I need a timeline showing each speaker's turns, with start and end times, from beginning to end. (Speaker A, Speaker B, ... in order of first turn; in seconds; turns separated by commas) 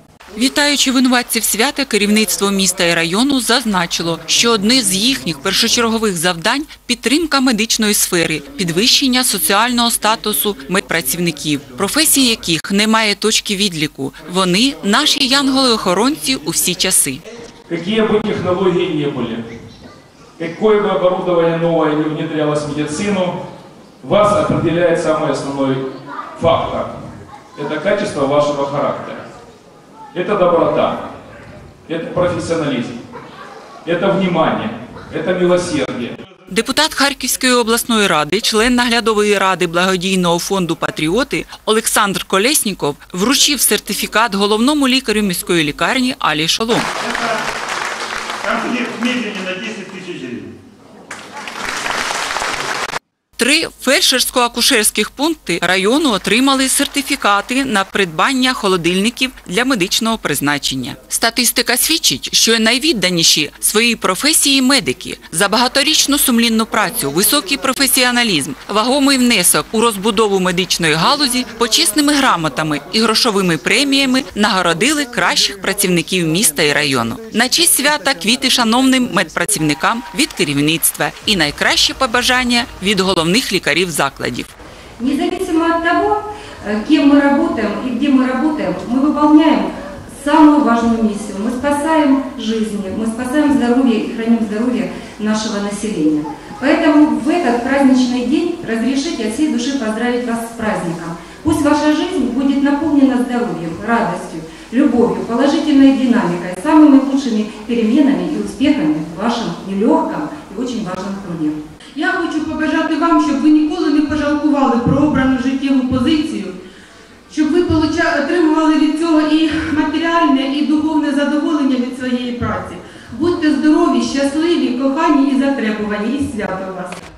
Speaker A: 0.3-17.2, Speaker B: 17.7-19.4, Speaker B: 20.4-23.4, Speaker B: 24.0-25.8, Speaker B: 26.4-26.9, Speaker B: 27.5-29.2, Speaker B: 30.1-31.0, Speaker B: 31.9-33.0, Speaker B: 33.8-36.2, Speaker A: 36.5-46.9, Speaker C: 48.4-50.5, Speaker A: 53.4-84.5, Speaker D: 85.0-111.6, Speaker E: 111.9-116.5, Speaker E: 117.3-127.0